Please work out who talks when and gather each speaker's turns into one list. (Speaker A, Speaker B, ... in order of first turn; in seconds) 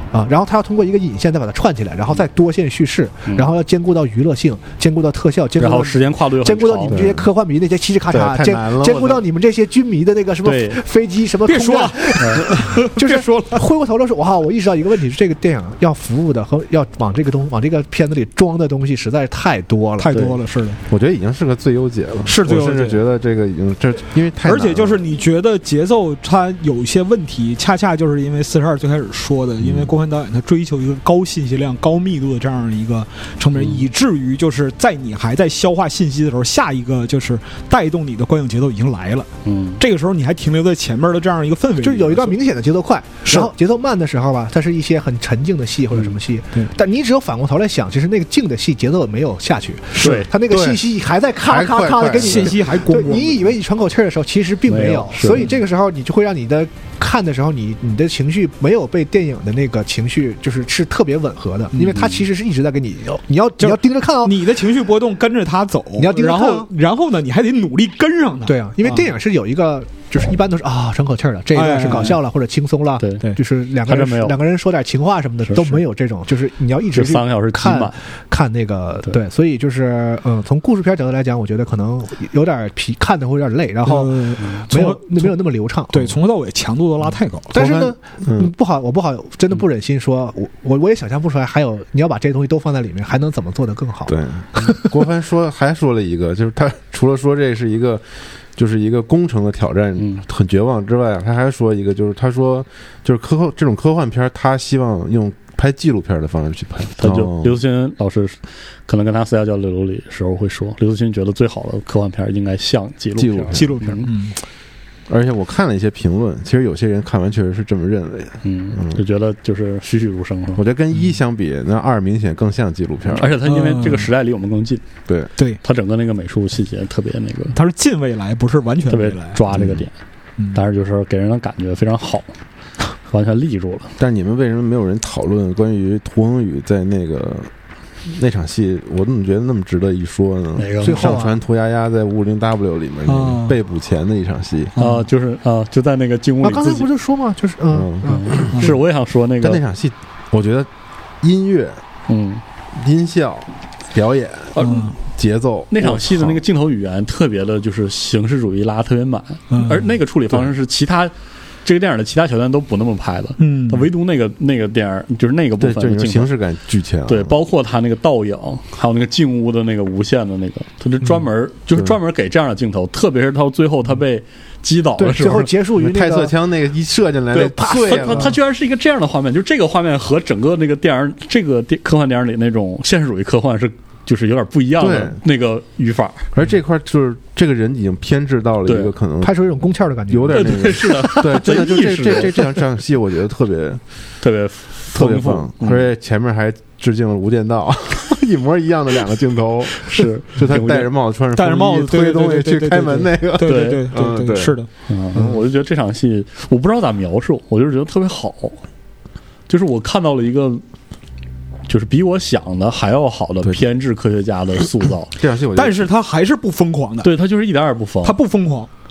Speaker A: 0.1-20.3, 41.8-64.5, 66.0-66.7, 68.5-86.1, 87.5-95.0, 140.8-141.4, 146.4-148.6, 175.0-176.3, 177.4-178.3, 189.2-190.8
Speaker B: 5.6-7.0, 10.4-10.8, 39.4-39.8, 49.9-50.3, 54.7-55.5, 73.8-74.4, 75.5-75.8, 76.9-77.9, 100.0-100.2, 107.0-114.1, 118.4-120.6, 123.1-124.8, 125.6-127.6, 128.9-129.9, 130.5-132.3, 133.1-133.9, 140.6-141.2, 144.8-146.9, 148.1-149.6, 152.1-152.4, 154.5-154.9, 155.7-166.3, 167.1-175.5, 177.3-186.2, 188.7-188.9, 190.3-192.5, 194.2-195.9, 199.8-200.9, 203.4-203.9, 204.9-208.6, 209.5-210.6, 211.7-215.1, 217.0-218.2
Speaker C: 6.9-7.2, 8.1-9.2, 20.9-25.0, 29.6-29.9, 50.5-50.8, 51.5-52.5, 87.6-88.5, 94.1-98.0, 98.5-107.6, 113.2-113.7, 115.1-119.0, 120.6-123.3, 129.5-129.8, 134.0-137.5, 138.1-144.7, 147.7-148.8, 149.4-150.7, 151.2-151.8, 152.7-156.4, 165.6-167.3, 175.8-178.4, 184.8-185.2, 186.3-189.4, 190.1-193.8, 194.9-204.6, 215.1-215.8
Speaker D: 11.4-13.6, 20.0-20.8, 22.2-23.0, 24.4-42.4, 43.2-43.5, 52.0-53.4, 61.8-62.0, 63.6-69.0, 71.5-72.2, 83.8-85.3, 85.9-87.8, 113.5-114.4, 123.4-124.1, 127.5-129.4, 143.1-143.6, 144.7-145.1, 154.6-154.9, 159.5-159.9, 163.4-163.9, 201.3-204.7, 215.5-217.1, 218.0-218.7